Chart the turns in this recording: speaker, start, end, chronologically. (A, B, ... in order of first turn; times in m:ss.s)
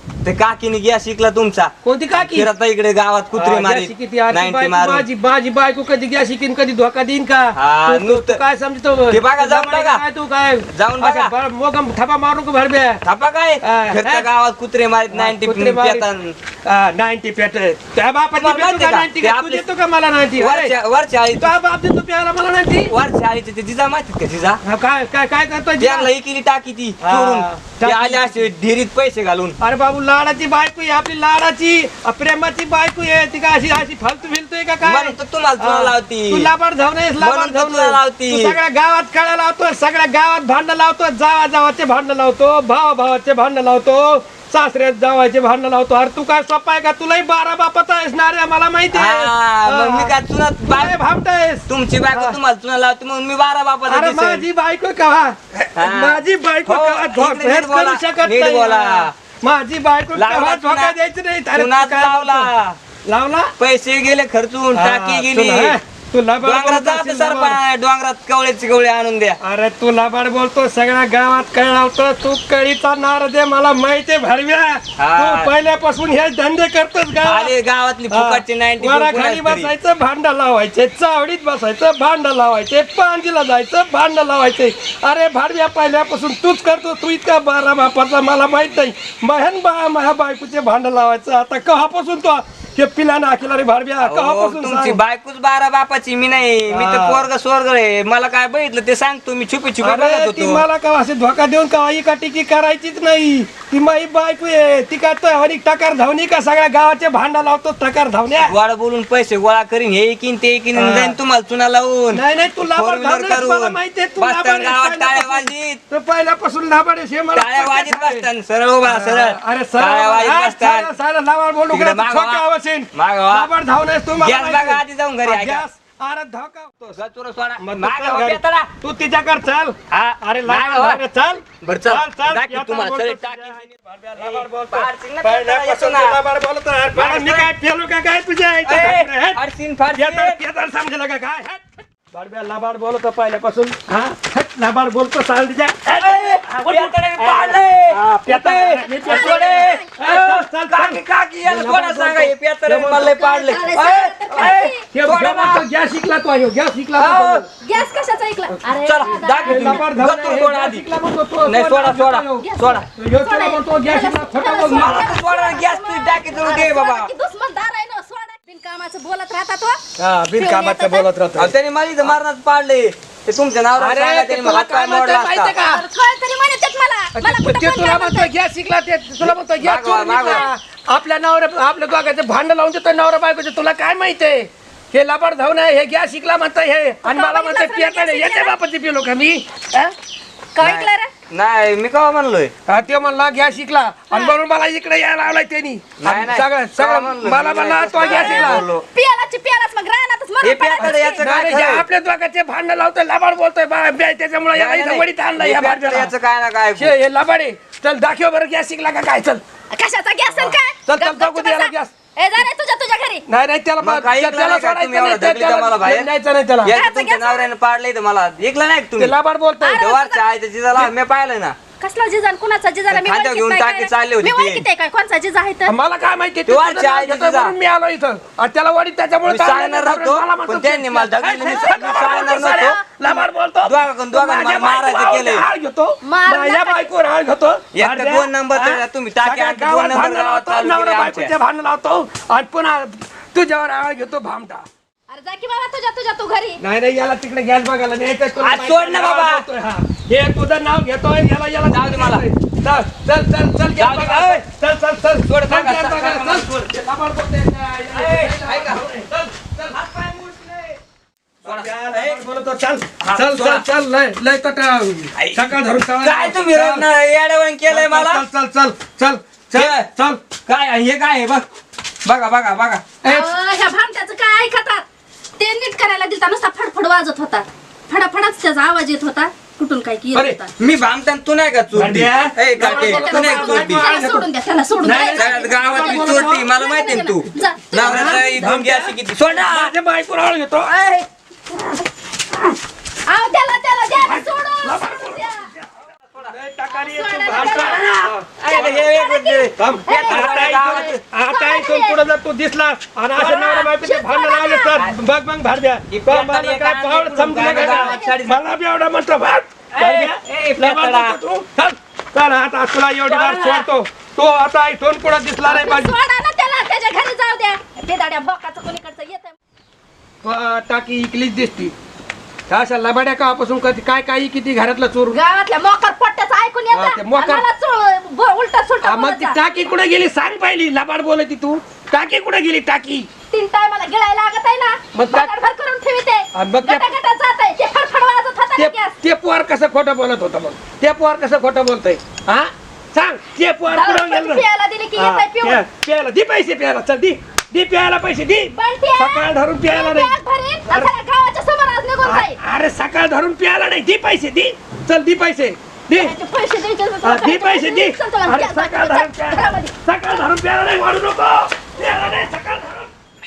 0:00.2-0:05.1 A
0:01.8-0:02.5 B
0:03.3-0:13.0 B
0:07.5-0:08.4 A
0:09.1-0:10.0 A
0:10.7-0:11.3 A
0:13.0-0:16.4 A
0:13.6-0:14.3 B
0:15.1-0:16.1 B
0:16.6-0:20.7 B
0:18.4-0:19.6 A
0:20.4-0:21.5 A
0:21.3-0:22.9 B
0:22.9-0:24.6 A
0:24.6-0:26.1 B
0:25.8-0:29.6 A
0:27.0-0:28.5 B
0:29.6-0:52.4 B
0:34.8-0:36.5 A
0:37.2-0:38.6 A
0:48.9-0:51.0 A
0:51.7-0:54.5 A
0:53.8-1:02.5 B
0:55.8-0:59.1 A
1:00.1-1:01.0 A
1:01.5-1:02.8 A
1:03.0-1:03.5 B
1:03.6-1:05.8 A
1:04.7-1:07.6 B
1:06.4-1:09.4 A
1:09.4-1:17.5 B
1:15.0-1:15.5 A
1:17.2-1:19.7 A
1:18.1-1:35.0 B
1:34.0-1:40.6 A
1:36.7-1:37.2 B
1:39.8-1:48.5 B
1:48.4-1:55.8 A
1:50.7-1:51.2 B
1:52.1-1:58.3 B
1:57.3-2:00.9 A
1:58.8-2:07.0 B
2:01.7-2:03.5 A
2:04.2-2:05.6 A
2:06.9-2:08.7 A
2:07.6-2:19.4 B
2:09.9-2:11.0 A
2:11.6-2:16.2 A
2:16.9-2:17.5 A
2:18.6-2:20.4 A
2:19.9-2:33.1 B
2:25.9-2:35.6 A
2:28.9-2:29.8 C
2:32.9-2:34.8 C
2:33.7-2:37.5 B
2:37.0-2:37.4 A
2:37.6-2:40.0 C
2:38.5-2:45.1 B
2:38.8-2:40.9 A
2:41.4-2:42.8 A
2:42.4-2:49.8 C
2:44.6-2:47.1 A
2:50.0-2:51.5 B
2:50.4-2:51.1 C
2:51.4-2:55.6 A
2:53.7-2:55.8 B
2:55.6-2:58.3 C
2:57.1-3:09.9 B
2:59.2-3:00.5 A
3:00.2-3:00.4 C
3:07.0-3:08.5 C
3:10.5-3:11.1 C
3:10.6-3:12.5 A
3:12.7-3:18.7 B
3:14.1-3:14.4 C
3:16.0-3:18.8 A
3:18.0-3:21.3 C
3:20.4-3:21.8 A
3:20.8-3:26.1 B
3:24.5-3:26.9 A
3:26.8-3:29.4 B
3:29.7-3:33.2 C
3:30.4-3:31.9 B
3:33.3-3:36.8 B
3:33.8-3:36.1 A
3:36.6-3:39.2 A
3:36.7-3:37.5 C
3:39.0-3:39.8 B
3:39.6-3:40.2 C
3:39.8-3:41.6 A
3:41.8-3:45.8 C
3:42.9-3:44.6 A
3:45.7-4:04.7 B
3:46.4-3:47.5 A
3:49.2-3:52.8 A
3:51.3-3:53.1 C
3:53.6-3:55.4 A
3:56.0-3:56.9 C
3:57.7-4:01.3 A
4:05.1-4:06.6 C
4:06.6-4:19.8 B
4:08.4-4:09.4 A
4:11.7-4:12.2 A
4:13.8-4:14.4 A
4:15.3-4:16.5 A
4:17.9-4:18.8 A
4:19.7-4:20.7 A
4:21.4-4:26.9 B
4:21.4-4:22.2 A
4:23.0-4:23.6 A
4:25.1-4:28.2 A
4:27.7-4:30.3 B
4:29.5-4:31.4 A
4:32.0-4:33.0 A
4:33.0-4:33.3 B
4:33.0-4:34.8 C
4:35.4-4:40.5 C
4:40.1-4:40.4 B
4:40.6-4:44.1 A
4:41.7-4:44.3 B
4:42.6-4:48.3 C
4:44.8-4:46.5 B
4:45.0-4:49.7 A
4:47.7-4:51.0 B
4:50.7-4:51.0 C
4:53.1-4:55.5 C
4:54.0-4:58.8 B
4:56.1-4:56.3 A
4:56.7-5:02.0 C
4:57.3-5:01.0 A
4:59.6-5:15.9 B
5:03.1-5:04.9 C
5:05.9-5:08.4 A
5:07.4-5:08.2 C
5:09.7-5:11.4 A
5:13.0-5:13.7 A
5:15.4-5:19.4 C
5:20.2-5:21.7 B
5:22.5-5:25.2 B
5:25.1-5:29.4 C
5:26.7-5:27.5 B
5:28.8-5:33.1 B
5:33.3-5:39.0 C
5:34.9-5:35.3 B
5:36.3-5:36.9 B
5:38.6-5:44.4 B
5:43.7-5:45.6 C
5:45.0-5:50.2 B
5:48.5-5:52.4 C
5:52.0-5:56.1 B
5:55.9-5:59.7 C
5:57.0-6:02.9 B